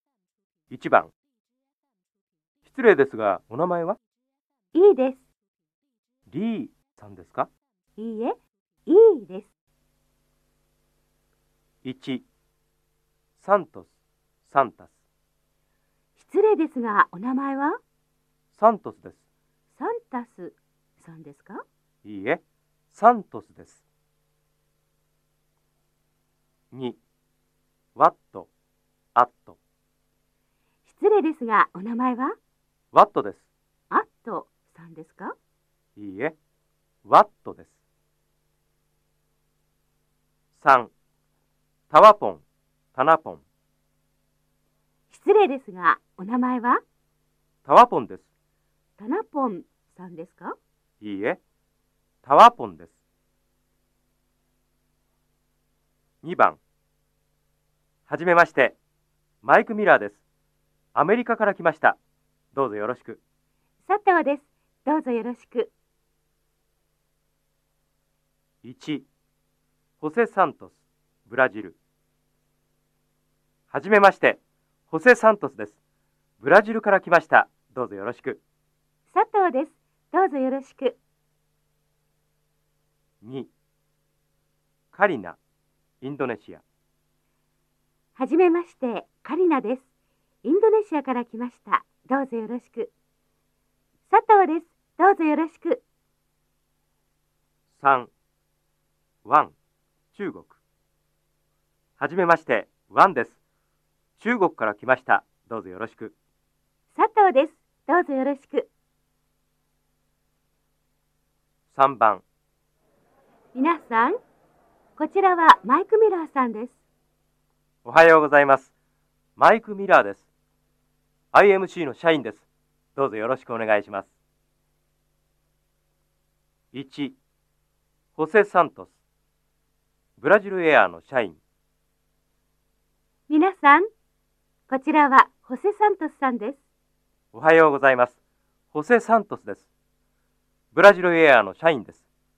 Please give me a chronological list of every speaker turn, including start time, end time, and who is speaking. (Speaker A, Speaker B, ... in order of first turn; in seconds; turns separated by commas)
Speaker A: 0.7-1.1, Speaker A: 2.6-4.0, Speaker B: 4.7-5.2, Speaker A: 6.3-7.5, Speaker B: 8.0-9.5, Speaker A: 11.8-12.2, Speaker A: 13.4-13.9, Speaker A: 14.4-14.9, Speaker B: 16.2-17.8, Speaker A: 18.5-19.2, Speaker B: 19.8-21.6, Speaker A: 22.0-23.8, Speaker A: 26.7-27.0, Speaker A: 27.9-28.5, Speaker A: 29.1-29.6, Speaker B: 30.9-32.4, Speaker A: 32.9-33.5, Speaker B: 33.9-35.3, Speaker A: 36.0-36.4, Speaker A: 37.0-37.8, Speaker A: 40.5-40.9, Speaker A: 41.9-43.4, Speaker B: 45.1-46.8, Speaker A: 47.6-48.3, Speaker B: 49.0-50.6, Speaker A: 51.0-51.4, Speaker A: 52.2-53.0, Speaker A: 56.2-56.6, Speaker A: 58.1-58.8, Speaker A: 59.4-60.2, Speaker A: 60.9-62.0, Speaker A: 62.5-63.2, Speaker B: 63.9-65.7, Speaker A: 68.6-69.1, Speaker A: 70.0-71.8, Speaker A: 73.7-75.8, Speaker A: 76.4-78.4, Speaker B: 79.1-81.0, Speaker A: 83.2-83.5, Speaker A: 84.9-85.4, Speaker A: 86.0-86.6, Speaker B: 88.2-89.8, Speaker B: 90.4-92.9, Speaker B: 94.1-95.8, Speaker A: 97.7-98.1, Speaker A: 99.2-99.5, Speaker A: 100.1-100.6, Speaker A: 102.0-103.4, Speaker A: 104.2-106.1, Speaker B: 106.9-108.7, Speaker A: 111.7-112.2, Speaker B: 113.5-114.2, Speaker B: 115.0-116.8, Speaker A: 117.8-118.7, Speaker A: 119.4-120.3, Speaker A: 121.3-124.1, Speaker A: 126.7-127.2, Speaker A: 128.2-128.9, Speaker A: 130.2-131.4, Speaker B: 133.3-133.8, Speaker B: 134.7-136.6, Speaker A: 137.3-138.2, Speaker A: 138.7-139.7, Speaker A: 140.7-142.1